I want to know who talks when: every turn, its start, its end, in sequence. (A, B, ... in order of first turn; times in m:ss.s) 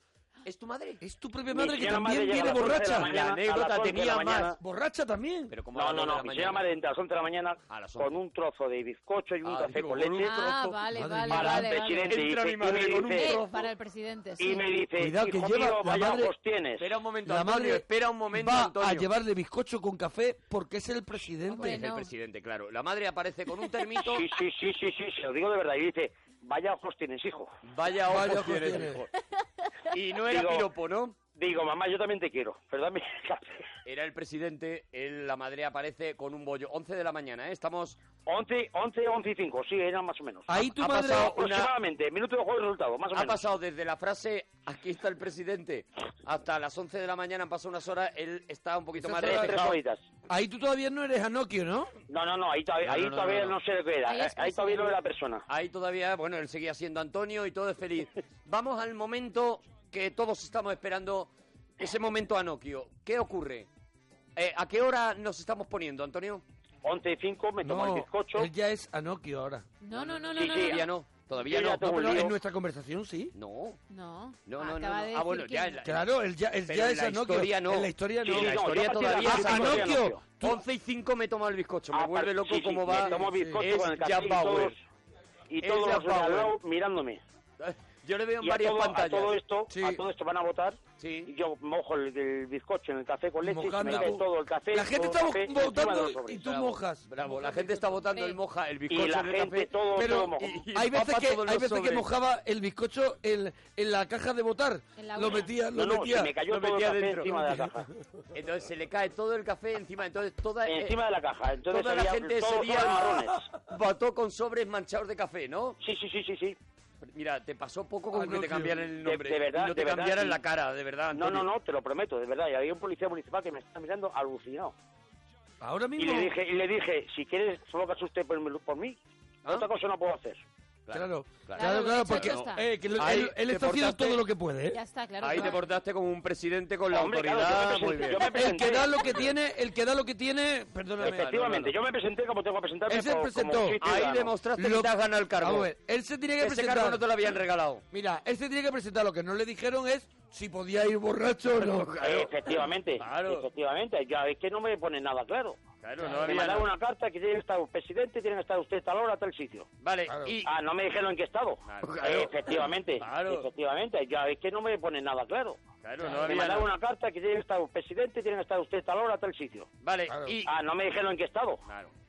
0:00.4-0:01.0 A
0:01.0-0:03.1 B
0:01.5-0:04.6 C
0:02.3-0:04.5 A
0:04.6-0:05.5 B
0:05.5-0:06.7 A
0:05.7-0:10.3 C
0:07.7-0:08.1 A
0:09.4-0:10.8 A
0:10.2-0:12.2 D
0:10.9-0:11.6 B
0:11.3-0:13.3 C
0:11.6-0:13.7 A
0:13.1-0:14.6 D
0:14.4-0:16.9 C
0:15.0-0:16.3 B
0:16.8-0:19.1 A
0:17.2-0:21.8 B
0:21.5-0:24.3 A
0:21.6-0:22.1 D
0:24.0-0:27.5 C
0:27.6-0:29.1 A
0:28.1-0:29.0 B
0:29.9-0:31.2 A
0:30.3-0:30.7 C
0:31.3-0:33.6 C
0:33.8-0:38.0 A
0:38.2-0:43.4 C
0:40.5-0:41.4 B
0:40.7-0:41.7 A
0:43.1-0:49.7 A
0:49.0-0:49.7 B
0:49.2-0:50.0 C
0:50.3-0:51.9 B
0:52.1-0:55.4 C
0:52.8-0:53.6 A
0:54.1-0:55.0 D
0:55.5-1:03.7 A
1:04.4-1:06.4 A
1:06.8-1:08.5 C
1:07.6-1:09.7 B
1:09.8-1:10.9 D
1:09.9-1:12.3 A
1:10.4-1:10.8 C
1:11.4-1:12.3 C
1:11.7-1:13.3 B
1:13.3-1:13.8 A
1:13.9-1:15.8 D
1:14.4-1:16.1 A
1:15.8-1:20.6 B
1:16.6-1:24.8 A
1:18.2-1:20.2 C
1:21.9-1:24.8 C
1:23.2-1:23.6 B
1:25.5-1:27.2 C
1:25.6-1:26.6 A
1:27.6-1:29.4 A
1:28.4-1:36.6 C
1:29.7-1:30.0 B
1:31.0-1:31.3 A
1:33.4-1:37.0 B
1:33.8-1:34.2 A
1:36.4-1:42.1 A
1:38.9-1:40.6 C
1:40.0-1:46.3 B
1:45.0-1:45.5 D
1:45.7-1:47.8 C
1:46.5-1:47.6 A
1:47.2-1:47.7 B
1:48.3-1:51.0 A
1:50.6-1:53.5 C
1:51.7-1:55.8 A
1:55.8-1:56.6 C
1:57.0-2:01.5 A
1:58.1-1:58.9 B
1:59.0-2:00.4 C
2:01.1-2:04.7 C
2:05.6-2:06.3 B
2:06.0-2:10.4 C
2:10.8-2:14.2 A
2:10.9-2:14.8 B
2:11.5-2:12.6 D
2:14.7-2:15.6 D
2:15.2-2:18.3 A
2:16.9-2:18.9 C
2:18.2-2:21.3 B
2:21.0-2:21.7 A
2:21.0-2:24.3 C
2:22.9-2:23.8 B
2:23.8-2:25.7 A
2:24.6-2:27.0 B
2:26.4-2:27.8 A
2:27.9-2:32.0 B
2:31.6-2:33.4 A
2:32.0-2:39.7 C
2:35.8-2:36.7 A
2:39.8-2:40.5 A
2:40.1-2:40.3 B
2:40.4-2:49.7 C
2:41.6-2:43.5 A
2:45.8-2:46.7 A
2:49.8-2:50.5 A
2:50.1-2:50.4 B
2:50.4-2:51.6 C
2:51.6-2:51.9 A